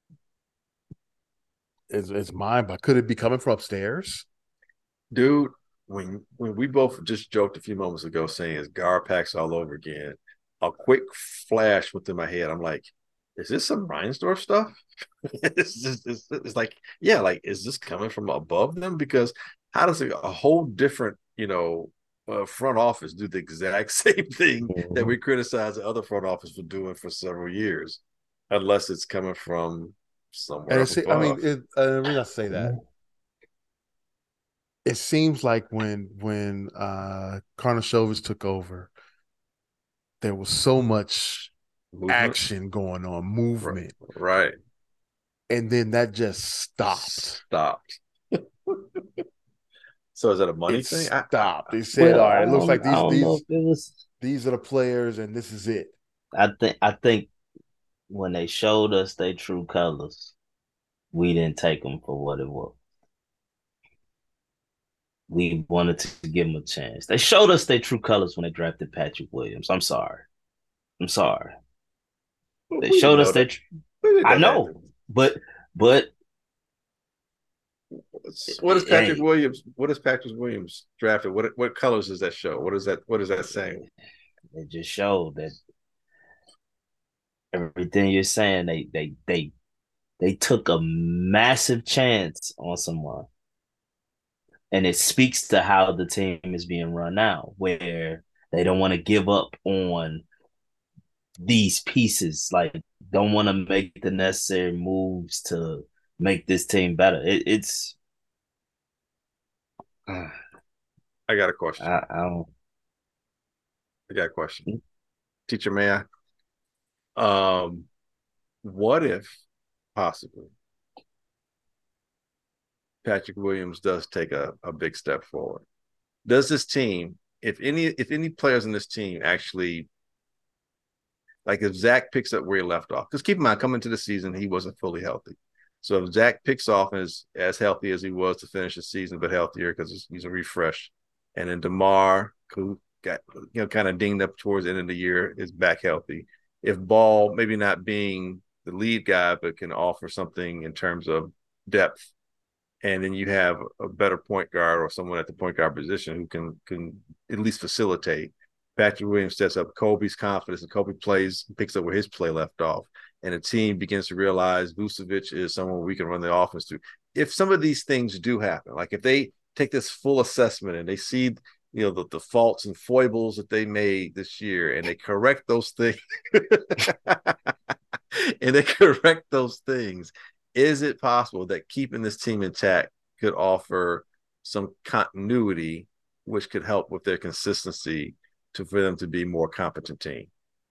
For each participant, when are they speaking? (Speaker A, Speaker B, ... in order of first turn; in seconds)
Speaker A: 1.9-4.2, 30.7-32.8, 34.8-38.9, 40.2-41.5, 42.1-43.9, 45.5-47.4, 50.7-53.4, 54.2-55.9
Speaker B: 5.1-31.4, 41.9-42.4, 43.6-44.5, 46.9-49.0, 50.1-52.4, 72.7-73.5, 74.0-74.8, 78.1-83.8, 111.3-111.9, 114.1-114.7, 115.5-116.0, 117.2-117.9, 118.6-119.4, 119.9-120.5, 123.0-125.6, 126.2-129.9, 131.4-152.1, 152.8-177.5, 178.1-190.3
Speaker C: 24.7-25.1, 52.0-54.0, 56.3-57.3, 58.1-60.3, 61.1-62.8, 65.3-70.2, 71.0-71.5, 72.8-73.6, 74.2-76.1, 78.6-79.2, 84.5-85.6, 87.5-89.5, 90.2-93.3, 94.7-100.2, 101.4-108.0, 110.1-110.3, 111.8-112.5